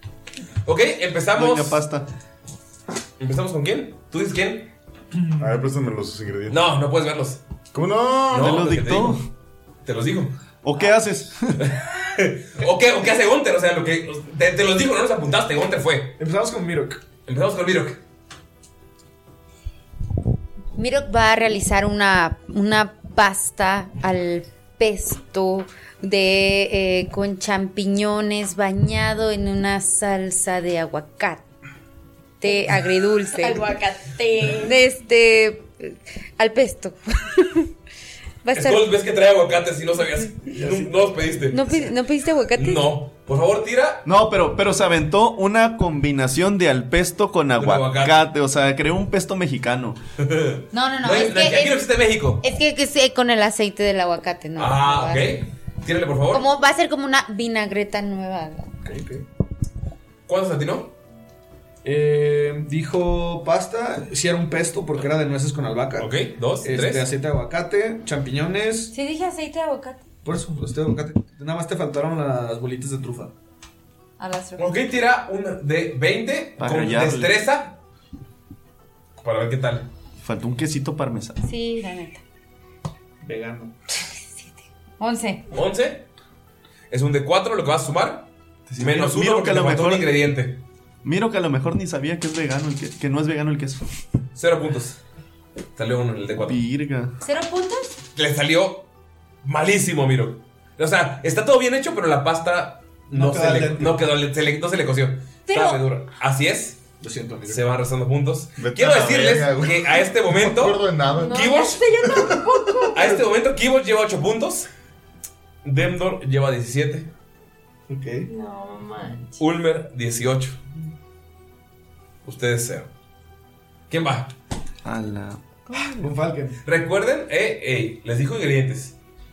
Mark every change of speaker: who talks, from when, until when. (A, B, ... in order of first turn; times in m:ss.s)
0:00.6-0:01.8 A
0:01.4-0:02.1 B
0:03.2-0:04.7 A
0:05.1-0:05.5 C
0:05.4-0:06.6 D
0:06.5-0:07.4 A
0:07.7-0:08.6 D
0:08.3-0:09.2 A
0:08.3-0:09.2 B
0:09.8-0:10.3 A
0:10.6-0:11.6 B
0:11.6-0:16.2 A
0:16.2-0:17.0 C
0:17.3-0:18.0 A
0:20.8-0:31.4 E
0:32.4-0:33.7 E
0:33.3-0:34.8 F
0:34.6-0:37.7 E
0:38.4-0:38.9 E
0:38.5-0:41.8 A
0:40.5-0:41.3 C
0:41.5-0:42.9 E
0:42.6-0:44.0 A
0:44.0-0:50.0 B
0:47.6-0:48.2 A
0:50.2-0:52.4 A
0:50.7-0:51.9 E
0:52.4-0:55.4 E
0:54.6-0:56.5 A
0:56.3-0:58.7 E
0:58.8-0:59.2 C
1:00.3-1:00.9 A
1:01.8-1:08.9 C
1:06.0-1:07.1 A
1:08.9-1:10.0 E
1:10.2-1:13.3 C
1:14.2-1:14.8 E
1:14.6-1:17.8 A
1:16.6-1:17.4 B
1:19.2-1:19.9 A
1:20.2-1:21.4 B
1:21.4-1:22.2 E
1:23.2-1:23.7 C
1:24.3-1:25.4 E
1:25.5-1:26.0 A
1:26.9-1:30.6 A
1:28.7-1:30.2 B
1:31.0-1:33.8 B
1:34.4-1:35.0 A
1:35.8-1:36.6 A
1:36.5-1:37.1 B
1:37.2-1:37.9 E
1:38.2-1:38.9 A
1:39.4-1:46.8 A
1:43.1-1:44.0 C
1:45.5-1:45.8 E
1:47.0-1:47.6 C
1:47.5-1:52.0 A
1:48.6-1:51.4 D
1:51.1-1:53.0 F
1:52.0-1:52.8 D
1:52.9-1:54.7 A
1:55.6-1:57.1 A
1:57.9-1:58.3 C
1:58.3-1:59.4 F
1:59.4-2:00.6 A
2:02.2-2:02.9 A
2:03.9-2:04.3 A
2:04.8-2:06.1 B
2:05.9-2:06.6 C
2:06.6-2:09.0 A